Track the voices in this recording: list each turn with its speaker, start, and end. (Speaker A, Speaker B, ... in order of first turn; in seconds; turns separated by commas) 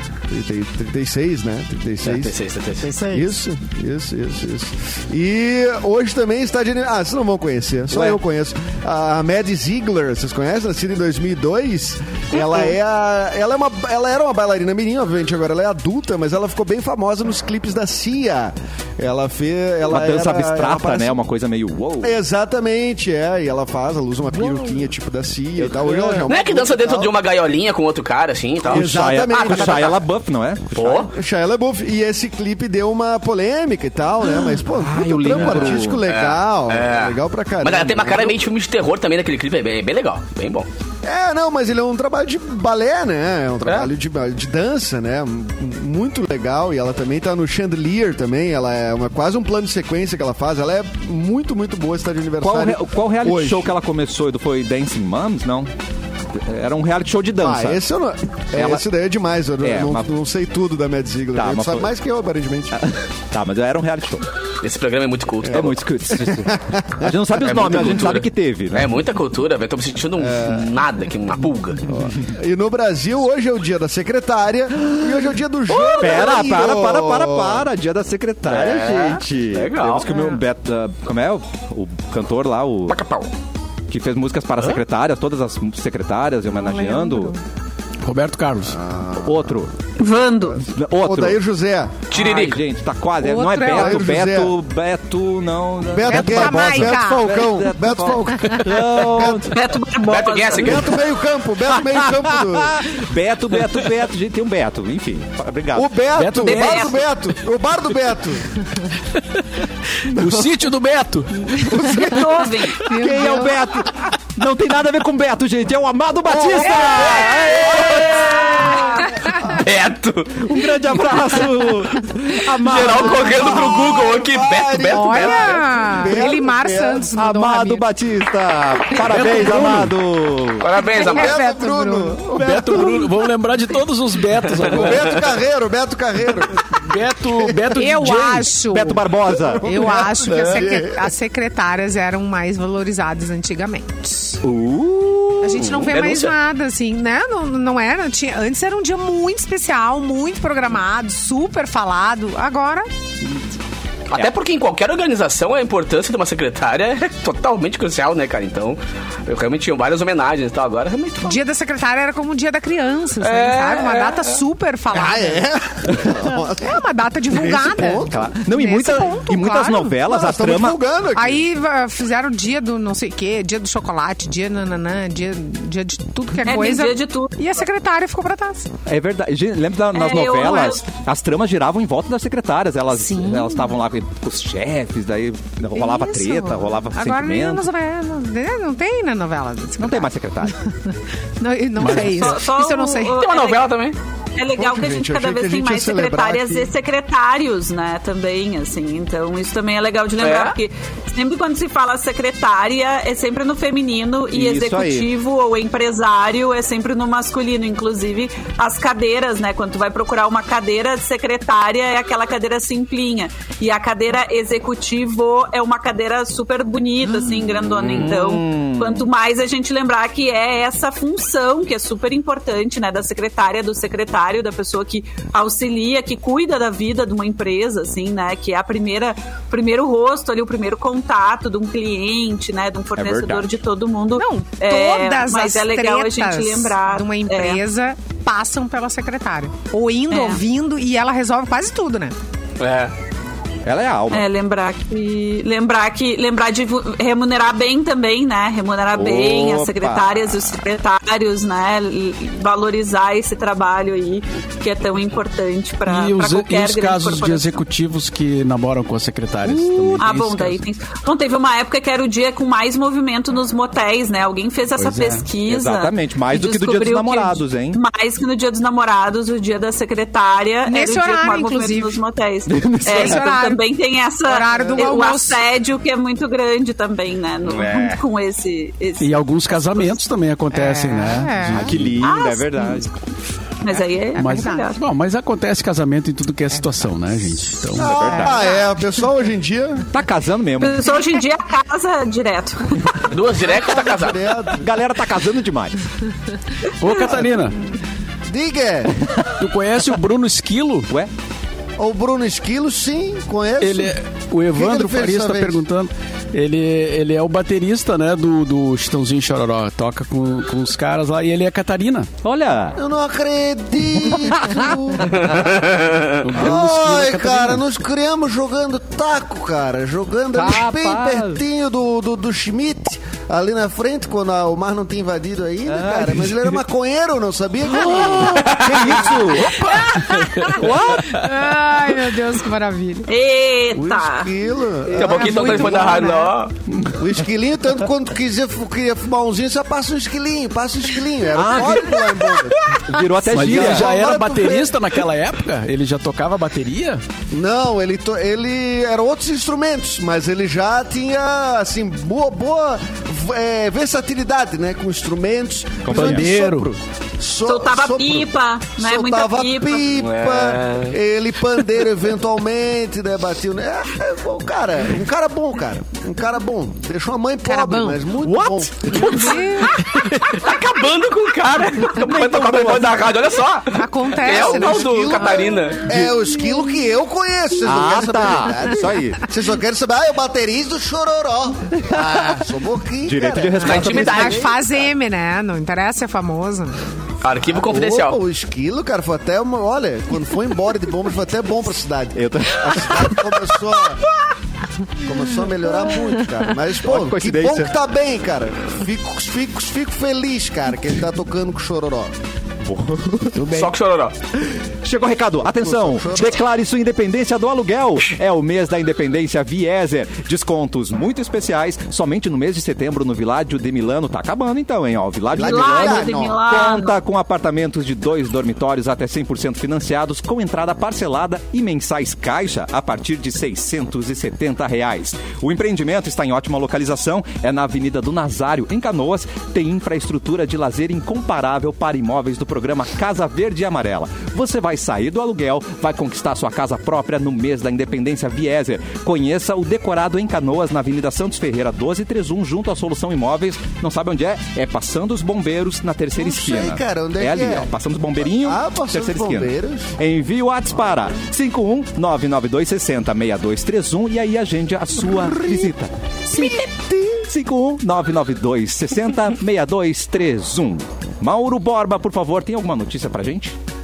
Speaker A: 0.3-2.4, Speaker B: 2.0-3.0, Speaker A: 3.0-21.1, Speaker C: 19.8-22.2, Speaker A: 22.0-27.1, Speaker C: 24.3-24.8, Speaker C: 25.6-26.3, Speaker B: 26.3-30.0, Speaker A: 28.6-30.0, Speaker C: 28.7-31.1, Speaker B: 30.7-31.1, Speaker A: 30.9-38.4, Speaker C: 34.7-36.0, Speaker B: 35.3-40.7, Speaker A: 41.0-53.7, Speaker B: 43.6-43.9, Speaker C: 52.4-55.7, Speaker C: 56.3-57.8, Speaker A: 57.4-62.8, Speaker C: 58.5-58.9, Speaker C: 59.6-60.1, Speaker C: 61.3-61.9, Speaker C: 62.7-64.2, Speaker B: 64.6-65.7, Speaker A: 65.4-68.1, Speaker C: 65.5-68.9, Speaker B: 67.4-71.9, Speaker A: 70.2-70.7, Speaker A: 71.9-77.6, Speaker B: 75.7-76.3, Speaker C: 76.0-83.0, Speaker B: 78.5-80.1, Speaker D: 80.1-80.4, Speaker B: 82.9-83.3, Speaker C: 83.9-87.3, Speaker D: 86.5-87.4, Speaker E: 88.0-88.8, Speaker A: 88.7-89.6, Speaker C: 89.2-89.7, Speaker F: 90.0-90.6, Speaker A: 90.4-92.1, Speaker C: 90.7-91.4, Speaker B: 92.1-92.6, Speaker C: 92.1-99.5, Speaker D: 93.2-94.1, Speaker A: 93.7-94.5, Speaker A: 95.9-99.5, Speaker D: 96.1-97.4, Speaker F: 99.5-100.9, Speaker B: 100.0-101.0, Speaker A: 100.5-102.8, Speaker C: 101.7-106.5, Speaker A: 105.7-108.6, Speaker E: 106.2-106.9, Speaker F: 106.4-107.0, Speaker E: 109.2-109.4, Speaker E: 110.0-111.7, Speaker A: 111.7-112.5, Speaker F: 111.9-112.9, Speaker D: 112.8-113.5, Speaker C: 112.8-118.9, Speaker A: 116.3-119.6, Speaker B: 117.7-118.6, Speaker B: 119.6-120.5, Speaker C: 120.3-123.7, Speaker B: 122.6-125.7, Speaker A: 122.7-127.1, Speaker D: 124.9-127.8, Speaker C: 127.2-130.7, Speaker E: 129.0-129.9, Speaker B: 130.6-131.4, Speaker D: 130.9-132.2, Speaker A: 130.9-133.1, Speaker E: 132.3-135.2, Speaker C: 132.4-132.9, Speaker A: 134.6-136.7, Speaker E: 136.8-138.5, Speaker D: 137.7-139.1, Speaker C: 138.5-140.0, Speaker A: 139.3-141.1, Speaker D: 139.6-144.4, Speaker C: 144.4-145.8, Speaker D: 145.4-152.9, Speaker B: 145.6-146.3, Speaker B: 154.1-161.4, Speaker D: 161.2-165.4, Speaker B: 163.2-164.4, Speaker A: 164.9-168.3, Speaker D: 166.0-170.0, Speaker C: 168.1-170.8, Speaker A: 170.0-171.4, Speaker D: 171.1-178.7, Speaker F: 176.4-177.4, Speaker C: 178.8-187.7, Speaker F: 179.9-180.8, Speaker D: 182.9-183.7, Speaker D: 185.7-190.1, Speaker C: 189.8-190.6, Speaker D: 190.9-193.2, Speaker E: 191.8-192.4, Speaker F: 191.9-193.7, Speaker B: 193.1-194.0, Speaker F: 194.3-237.6, Speaker A: 194.6-196.7, Speaker B: 200.2-200.6, Speaker C: 204.3-205.1, Speaker C: 217.1-219.1, Speaker C: 232.9-233.5, Speaker D: 234.2-242.1, Speaker F: 240.1-240.4, Speaker B: 242.6-242.9, Speaker C: 243.6-244.3, Speaker F: 244.1-257.6, Speaker C: 248.9-250.2, Speaker E: 255.8-260.6, Speaker C: 259.4-260.1, Speaker F: 260.0-279.8, Speaker E: 264.8-265.2, Speaker C: 265.4-267.8, Speaker D: 270.7-272.0, Speaker C: 272.5-273.3, Speaker D: 272.8-273.6, Speaker D: 274.2-275.4, Speaker A: 274.5-274.9, Speaker E: 279.0-281.9, Speaker D: 280.5-281.7, Speaker C: 281.5-282.9, Speaker F: 282.0-282.9, Speaker F: 283.6-284.8, Speaker E: 284.1-288.1, Speaker D: 284.2-284.7, Speaker C: 287.8-288.5, Speaker A: 287.8-289.9, Speaker D: 288.0-288.7, Speaker C: 289.9-290.9, Speaker F: 290.6-293.1, Speaker B: 293.1-294.2, Speaker A: 293.4-294.7, Speaker C: 294.6-295.8, Speaker E: 296.8-297.6, Speaker A: 298.3-299.0, Speaker E: 299.4-300.9, Speaker A: 301.8-303.9, Speaker E: 303.6-312.1, Speaker A: 304.5-305.6, Speaker C: 312.2-312.8, Speaker A: 312.8-315.5, Speaker C: 314.0-315.2, Speaker B: 315.3-316.1, Speaker E: 316.2-317.6, Speaker A: 316.3-329.3, Speaker C: 320.3-321.4, Speaker C: 325.7-326.6, Speaker C: 327.7-331.2, Speaker D: 329.5-333.1, Speaker E: 330.4-330.8, Speaker F: 333.1-334.3, Speaker A: 333.7-335.9, Speaker B: 334.9-336.5, Speaker D: 335.0-336.3, Speaker C: 336.7-337.1, Speaker A: 337.0-344.9, Speaker C: 341.3-342.1, Speaker C: 342.7-344.0, Speaker E: 343.3-347.0, Speaker A: 347.3-369.3, Speaker C: 355.8-356.6, Speaker E: 355.9-356.7, Speaker F: 357.4-359.9, Speaker B: 359.9-360.9, Speaker D: 367.4-368.0, Speaker C: 368.2-369.3, Speaker D: 368.9-369.8, Speaker B: 368.9-375.9, Speaker C: 369.9-370.3, Speaker C: 372.0-373.1, Speaker D: 373.7-375.2, Speaker A: 374.2-384.7, Speaker C: 377.6-379.2, Speaker C: 381.9-382.3, Speaker C: 383.0-384.5, Speaker B: 383.6-384.5, Speaker D: 383.6-386.8, Speaker B: 387.2-388.2, Speaker A: 387.5-394.0, Speaker C: 392.1-393.4, Speaker A: 395.0-402.1, Speaker C: 396.8-397.7, Speaker C: 402.6-403.6, Speaker B: 403.5-404.1, Speaker C: 404.8-456.6, Speaker A: 405.5-406.4, Speaker A: 415.3-416.4, Speaker F: 415.4-417.0, Speaker A: 446.2-447.7, Speaker A: 448.4-449.9, Speaker A: 455.1-455.7, Speaker A: 456.3-457.2, Speaker C: 457.2-463.6